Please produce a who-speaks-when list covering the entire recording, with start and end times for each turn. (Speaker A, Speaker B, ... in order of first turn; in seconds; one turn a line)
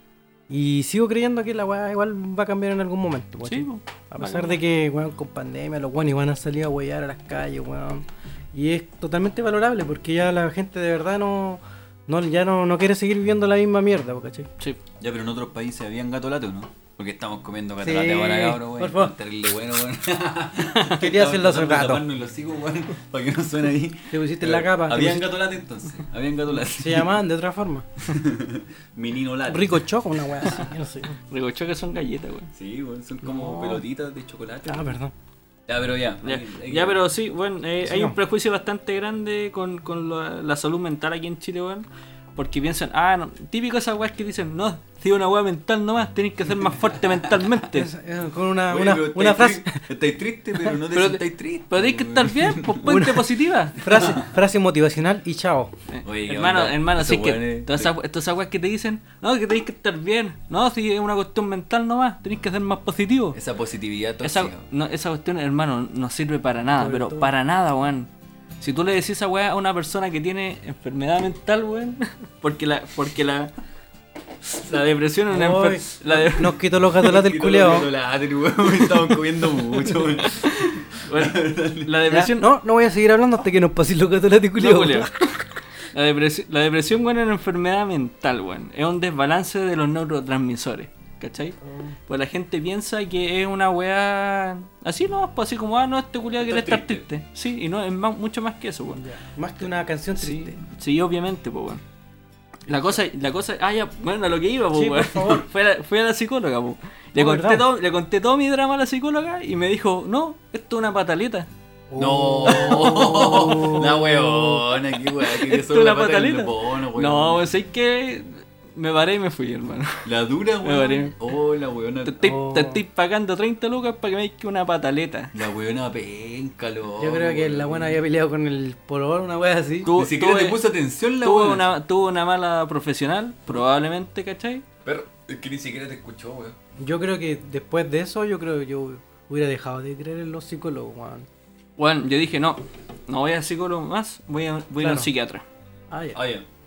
Speaker A: 0.5-14.5
Speaker B: 3.4-4.6
Speaker C: 15.0-27.1
Speaker A: 17.8-19.1
Speaker A: 20.9-22.0
Speaker A: 24.1-25.3
Speaker A: 26.6-27.9
Speaker C: 28.0-30.6
Speaker A: 29.5-31.1
Speaker B: 31.3-32.5
Speaker C: 32.5-34.9
Speaker A: 33.2-33.8
Speaker A: 34.6-35.1
Speaker C: 35.7-37.0
Speaker B: 36.2-47.9
Speaker A: 37.8-38.2
Speaker C: 47.1-47.5
Speaker A: 47.7-49.8
Speaker C: 48.7-53.0
Speaker B: 50.9-53.8
Speaker A: 52.8-55.7
Speaker C: 53.9-54.3
Speaker B: 55.9-63.4
Speaker C: 56.0-57.9
Speaker C: 63.3-64.7
Speaker B: 64.2-68.1
Speaker A: 66.8-67.3
Speaker B: 68.6-73.5
Speaker B: 74.5-76.6
Speaker A: 75.3-77.9
Speaker C: 77.0-81.9
Speaker B: 80.2-82.5
Speaker A: 82.1-85.1
Speaker B: 84.6-91.5
Speaker A: 91.6-92.0
Speaker B: 92.1-99.0
Speaker C: 96.4-97.1
Speaker A: 98.9-100.6
Speaker B: 100.2-101.8
Speaker B: 102.7-111.5
Speaker A: 102.7-103.0
Speaker A: 104.7-105.5
Speaker A: 107.2-107.7
Speaker A: 111.9-114.6
Speaker C: 112.0-117.4
Speaker B: 115.2-120.1
Speaker C: 120.0-122.2
Speaker B: 120.6-121.1
Speaker B: 122.0-125.3
Speaker A: 122.2-122.8
Speaker C: 125.3-128.0
Speaker A: 127.0-129.9
Speaker B: 129.8-130.6
Speaker C: 129.9-131.7
Speaker B: 131.2-134.6
Speaker C: 134.8-136.6
Speaker A: 136.8-141.3
Speaker B: 141.8-145.4
Speaker A: 144.8-145.1
Speaker A: 145.9-146.2
Speaker C: 146.1-146.4